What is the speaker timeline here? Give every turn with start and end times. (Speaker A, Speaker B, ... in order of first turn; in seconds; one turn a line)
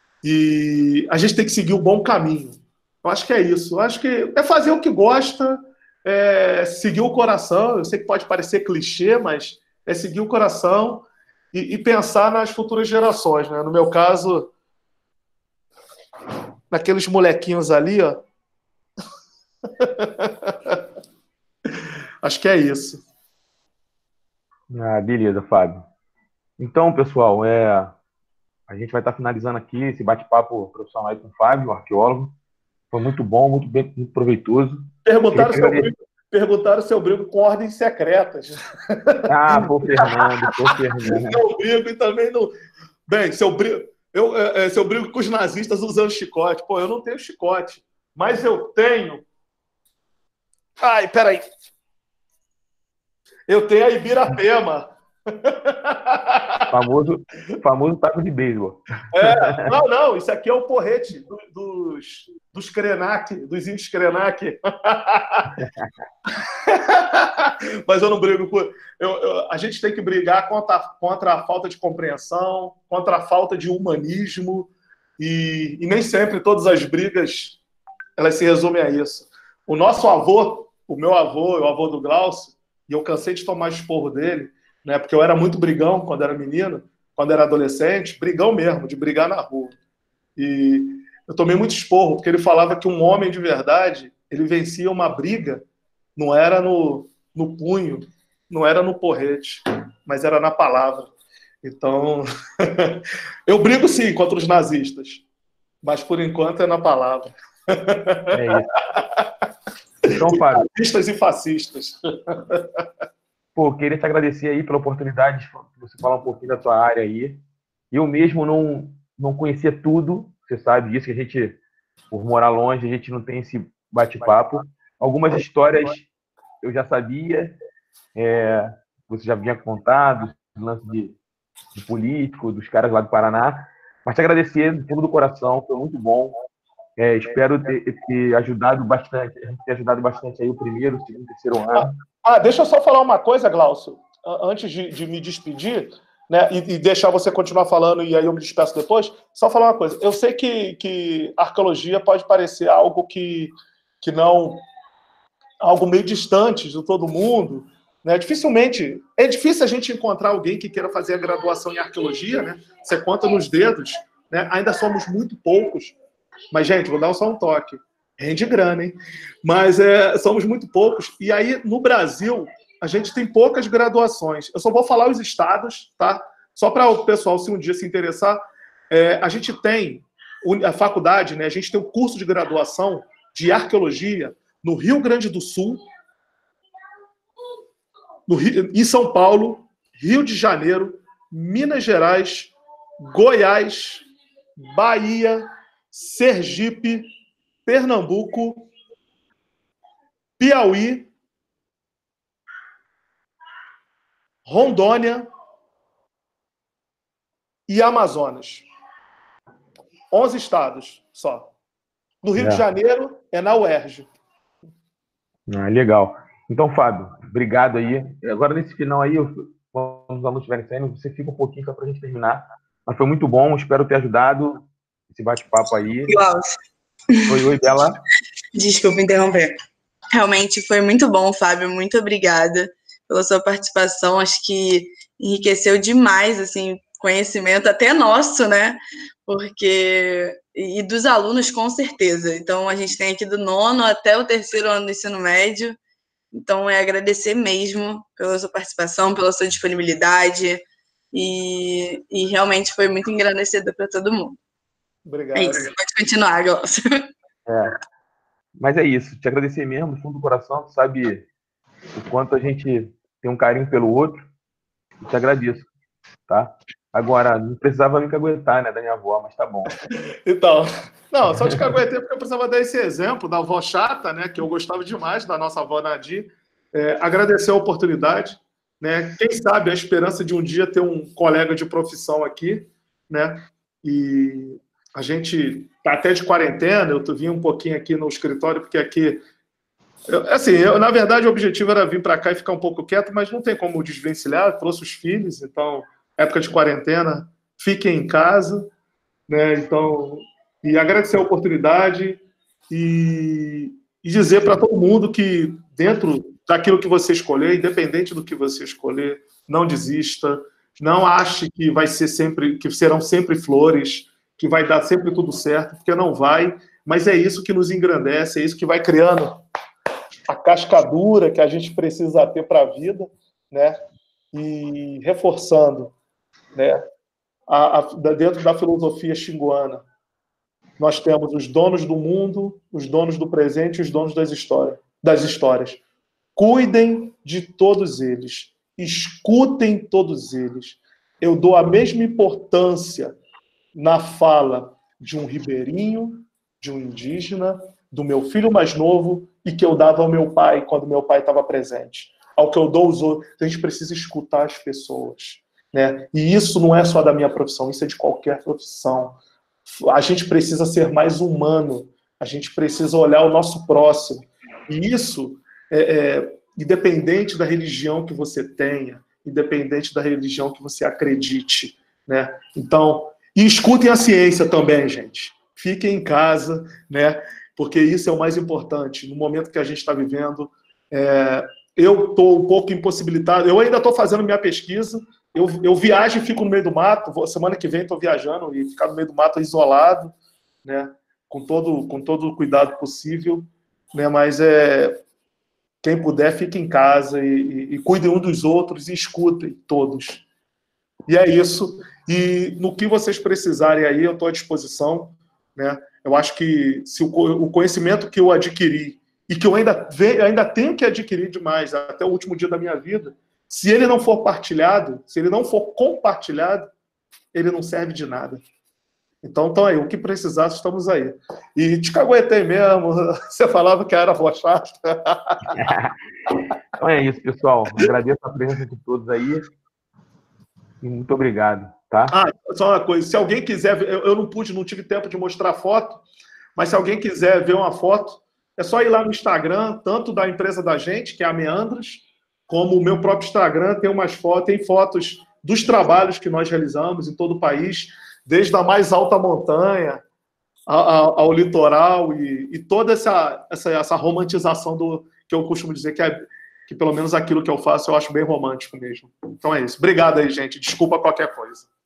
Speaker A: 0.2-14.5
Speaker A: 16.7-18.2
Speaker A: 19.8-20.8
Speaker A: 22.2-23.0
Speaker B: 24.7-25.9
Speaker B: 26.6-28.0
Speaker B: 28.7-32.4
Speaker B: 32.9-35.9
Speaker A: 35.0-42.5
Speaker B: 39.3-41.4
Speaker A: 43.1-49.2
Speaker A: 50.8-51.5
Speaker A: 53.5-56.7
Speaker B: 56.7-59.6
Speaker A: 59.1-65.5
Speaker A: 66.5-77.6
Speaker A: 78.2-89.8
Speaker A: 90.3-95.6
Speaker A: 96.2-101.1
Speaker A: 101.6-105.2
Speaker A: 105.8-109.3
Speaker B: 108.3-108.7
Speaker B: 110.0-110.7
Speaker A: 110.1-112.8
Speaker B: 113.5-126.1
Speaker B: 126.6-127.5
Speaker B: 128.1-131.2
Speaker B: 131.7-136.3
Speaker B: 137.0-141.9
Speaker A: 141.7-154.6
Speaker A: 155.6-165.9
Speaker A: 166.5-185.8
Speaker A: 188.3-194.1
Speaker A: 194.6-197.1
Speaker A: 197.7-198.7
Speaker A: 200.4-201.1
Speaker A: 204.4-205.3
Speaker A: 207.7-208.7
Speaker A: 210.1-211.5
Speaker A: 212.2-214.1
Speaker B: 212.3-212.6
Speaker B: 215.5-226.2
Speaker C: 226.1-226.5
Speaker B: 227.3-228.0
Speaker C: 228.5-229.6
Speaker C: 230.1-245.8
Speaker C: 246.3-254.4
Speaker A: 255.1-255.7
Speaker C: 255.3-257.0
Speaker B: 257.5-257.7
Speaker B: 258.6-261.3
Speaker B: 261.9-264.2
Speaker B: 265.0-265.7
Speaker B: 266.3-269.7
Speaker A: 270.2-289.2
Speaker B: 271.3-271.6
Speaker A: 290.1-298.7
Speaker A: 299.3-319.4
Speaker A: 320.3-323.8
Speaker A: 324.3-325.9
Speaker A: 326.5-326.8
Speaker A: 327.5-329.8
Speaker A: 330.8-335.8
Speaker A: 336.4-343.2
Speaker A: 343.7-395.0
Speaker A: 395.8-400.2
Speaker A: 401.1-416.7
Speaker A: 417.3-418.4
Speaker A: 419.2-425.6
Speaker B: 425.5-425.9
Speaker B: 426.8-429.5
Speaker B: 430.8-432.1
Speaker A: 432.1-436.0
Speaker A: 436.6-450.0
Speaker A: 450.7-461.7